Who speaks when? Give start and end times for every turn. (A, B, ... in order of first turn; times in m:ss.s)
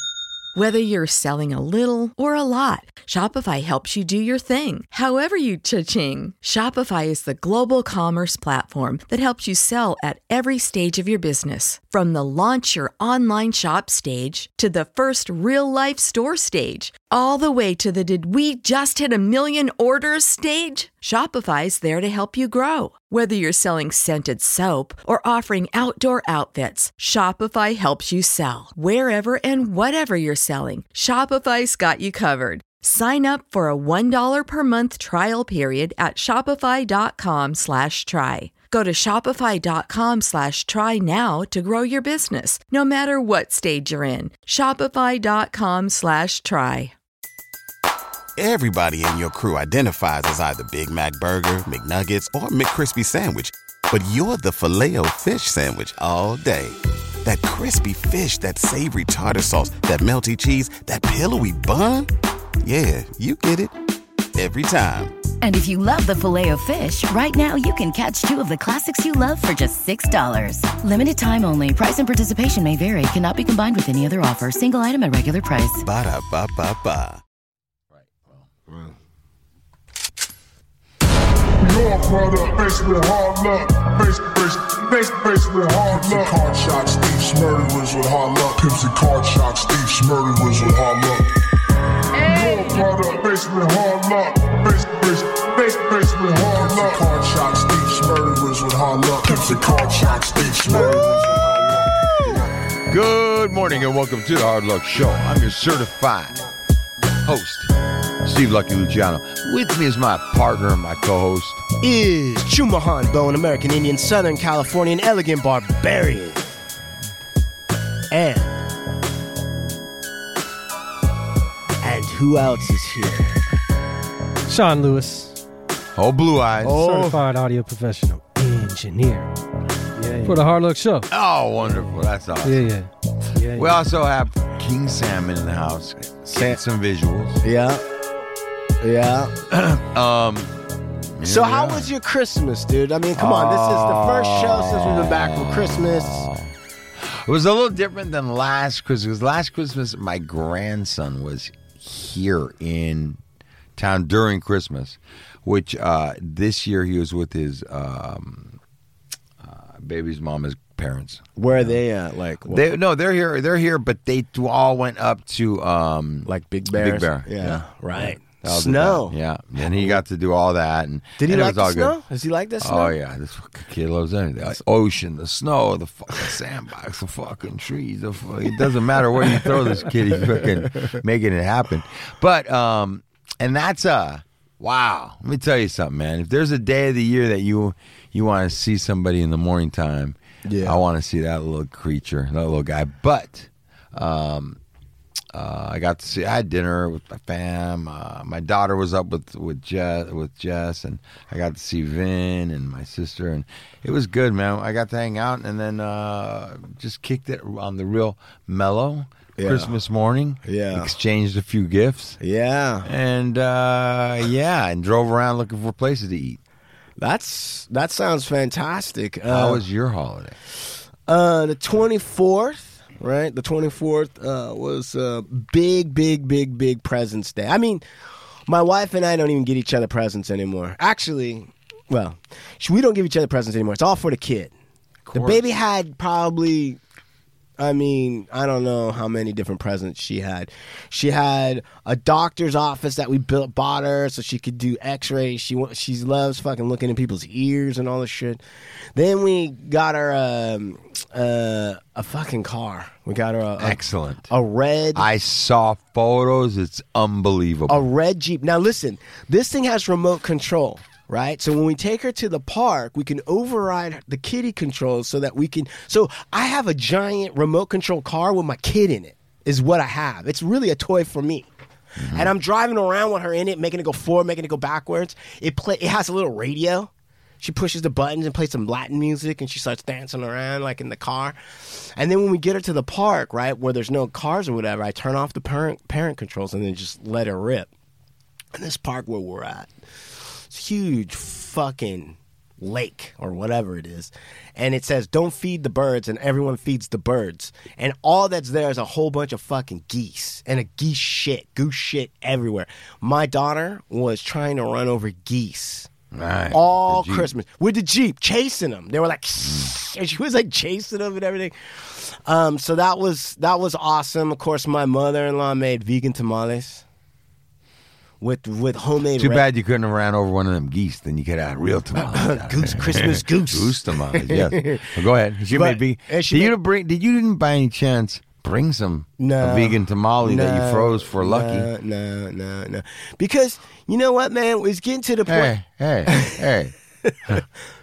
0:00.6-0:46.9 A
0:48.4-1:03.8 B
1:04.4-1:05.2 B
1:05.4-1:15.8 C
1:15.8-1:17.2 B
1:18.0-1:18.5 D
1:21.6-1:31.3 E
1:32.2-1:41.8 E
1:42.9-1:46.4 D
1:47.2-1:47.7 D
1:48.2-1:51.6 D
1:51.8-1:56.6 F
1:58.1-1:58.6 F
2:01.8-2:03.3 F
2:04.5-2:05.4 G
2:06.0-2:06.9 D
2:06.6-2:09.3 G
2:06.9-2:07.2 F
2:10.0-2:11.1 G
2:11.1-2:12.7 D
2:12.4-2:13.7 G
2:13.5-2:17.4 D
2:17.4-2:17.8 F
2:18.8-2:19.4 F
2:19.5-2:20.6 D
2:21.2-2:21.9 D
2:21.2-2:26.3 F
2:23.2-2:33.2 D
2:33.8-2:38.6 D
2:39.4-2:41.8 D
2:41.4-2:42.7 F
2:42.5-2:52.0 D
2:46.3-2:49.2 F
2:49.7-2:50.0 F
2:51.2-2:53.0 F
2:52.6-3:14.6 D
3:10.4-3:10.8 F
3:15.3-3:32.2 D
3:29.4-3:29.7 F
3:30.4-3:30.9 F
3:32.2-3:32.9 F
3:32.8-3:36.4 D
3:37.0-3:39.6 F
3:39.3-3:40.4 D
3:41.1-3:47.8 F
3:48.5-3:54.5 F
3:55.0-3:55.5 D
3:55.1-3:56.8 F
3:57.6-4:08.4 F
4:09.0-4:15.1 F
4:13.6-4:14.3 D
4:15.0-4:17.8 D
4:17.7-4:31.5 F
4:32.0-4:32.3 D
4:32.1-4:36.9 F
4:37.4-4:47.7 F
4:48.5-4:49.7 F
4:50.5-5:05.9 F
5:06.1-5:07.3 D
5:06.5-5:16.8 F
5:09.4-5:09.7 D
5:18.2-5:19.4 F
5:19.2-5:31.7 D
5:22.0-5:25.0 F
5:25.5-5:26.6 F
5:29.2-5:35.5 F
5:35.3-5:36.7 D
5:36.1-5:36.5 F